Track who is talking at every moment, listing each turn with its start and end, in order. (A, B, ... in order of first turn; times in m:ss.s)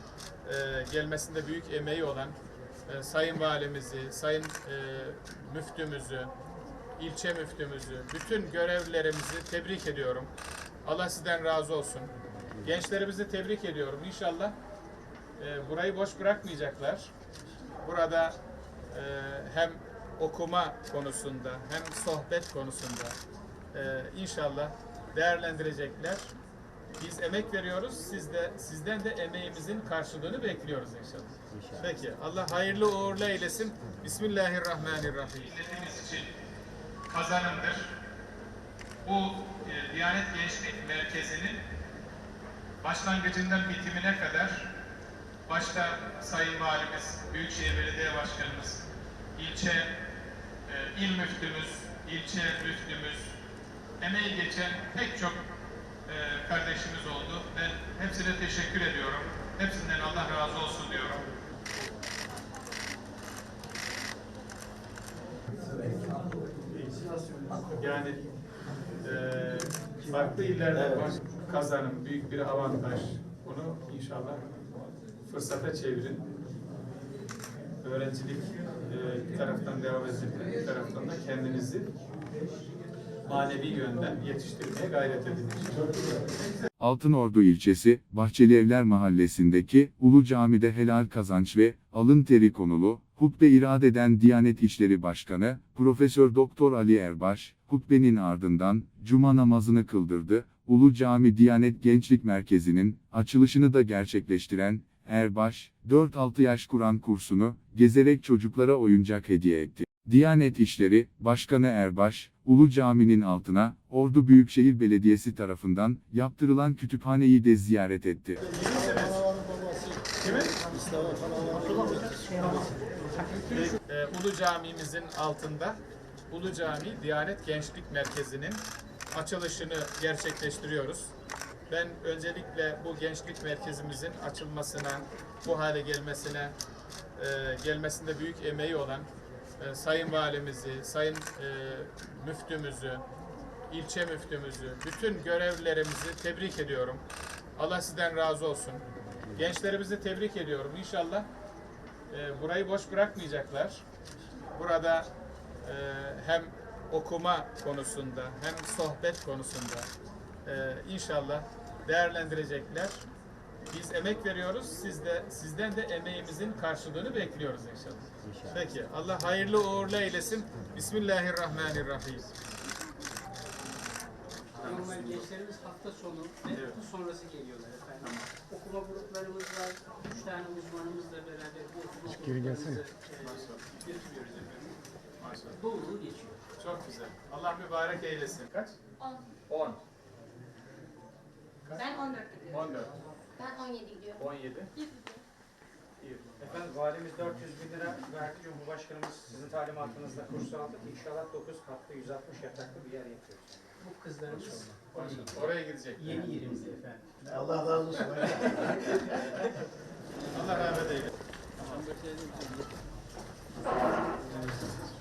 0:00.4-0:06.3 A
0:07.0-0:10.3 A
0:10.8-0:14.6 A
0:15.4-0:17.1 A
0:17.8-0:18.4 A
0:18.9-0:23.2 A
0:23.7-0:26.3 A
0:27.0-0:36.3 A
0:37.1-0:37.9 A
0:39.0-0:41.6 A
0:42.8-0:44.7 A
0:45.4-0:48.8 A
0:49.3-0:49.9 A
0:50.6-0:53.3 A
0:54.0-0:55.4 A
0:56.1-1:01.2 A
1:06.7-1:07.1 A
1:07.7-1:08.3 A
1:09.0-1:14.4 A
1:15.2-1:16.2 A
1:17.8-1:21.9 A
1:23.2-1:26.5 A
1:26.8-1:58.4 B
1:58.5-1:59.3 A
2:00.2-2:00.6 A
2:03.5-2:11.1 A
2:11.7-2:16.5 A
2:17.2-2:23.0 A
2:23.7-2:27.0 A
2:27.6-2:31.3 A
2:32.1-2:33.8 A
2:34.5-2:35.1 A
2:35.6-2:39.9 A
2:40.4-2:43.0 A
2:43.7-2:52.3 A
2:54.5-2:55.2 A
2:54.6-3:04.8 C
2:56.5-2:56.8 A
2:58.0-2:58.3 A
3:03.2-3:03.6 A
3:05.2-3:05.6 A
3:05.5-3:06.4 C
3:06.6-3:08.8 A
3:09.0-3:09.2 D
3:09.5-3:09.8 E
3:11.7-3:12.7 D
3:12.5-3:12.9 A
3:13.4-3:14.2 D
3:14.2-3:14.7 A
3:14.7-3:15.2 D
3:16.0-3:16.4 A
3:16.4-3:25.2 E
3:23.8-3:25.4 C
3:24.9-3:26.3 A
3:26.0-3:27.8 E
3:26.2-3:27.4 C
3:28.0-3:29.4 A
3:30.3-3:31.8 A
3:34.4-3:34.7 A